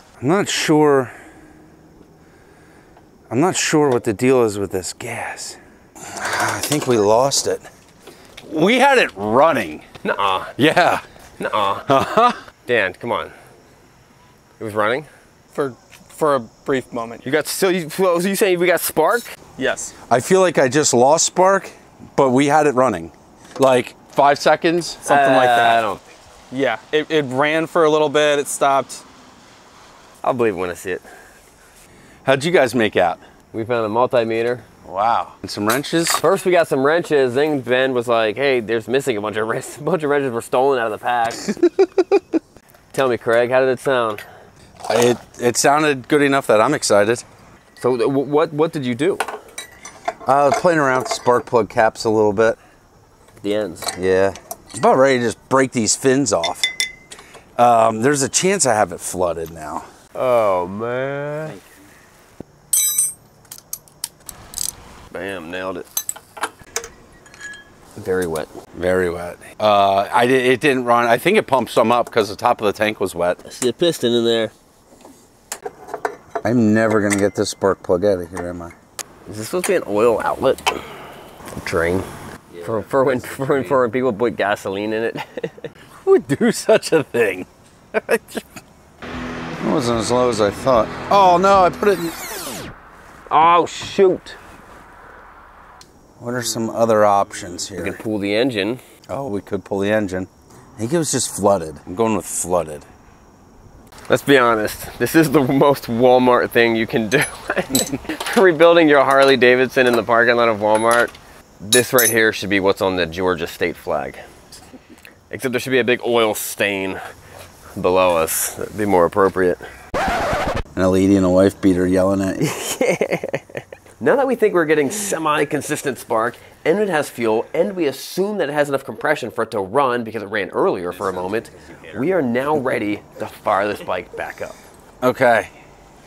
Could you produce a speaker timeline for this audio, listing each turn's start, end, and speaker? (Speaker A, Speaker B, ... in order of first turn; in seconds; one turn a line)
Speaker A: 0.2-1.1
Speaker A: 3.3-7.7
Speaker A: 8.4-9.8
Speaker B: 10.0-10.6
Speaker A: 10.6-11.0
Speaker B: 11.4-11.9
Speaker A: 11.9-12.4
Speaker B: 12.7-13.3
Speaker B: 14.6-15.1
Speaker C: 15.5-17.3
Speaker B: 17.2-19.4
Speaker C: 19.6-19.9
Speaker A: 20.1-25.1
Speaker B: 25.0-26.0
Speaker C: 25.1-25.9
Speaker C: 26.5-29.0
Speaker B: 30.2-31.1
Speaker A: 32.2-33.2
Speaker B: 33.5-34.6
Speaker A: 34.8-36.2
Speaker B: 36.2-41.4
Speaker A: 41.5-41.9
Speaker B: 42.9-44.2
Speaker A: 44.9-47.2
Speaker B: 47.8-49.2
Speaker A: 50.2-52.6
Speaker B: 53.4-53.9
Speaker A: 53.9-56.7
Speaker A: 57.6-59.9
Speaker B: 60.1-61.5
Speaker B: 65.1-65.8
Speaker B: 68.0-68.5
Speaker A: 68.7-73.4
Speaker B: 73.4-74.5
Speaker A: 76.4-78.7
Speaker B: 79.3-80.9
Speaker B: 81.5-82.1
Speaker A: 82.5-83.8
Speaker B: 82.6-85.7
Speaker A: 86.0-88.5
Speaker A: 89.6-92.2
Speaker B: 93.3-94.4
Speaker A: 96.2-98.0
Speaker B: 97.8-98.8
Speaker A: 99.1-102.8
Speaker B: 104.1-114.2
Speaker B: 115.3-117.0
Speaker B: 117.8-119.6
Speaker A: 120.7-122.4
Speaker B: 122.4-134.6
Speaker A: 130.9-132.1
Speaker A: 135.0-135.5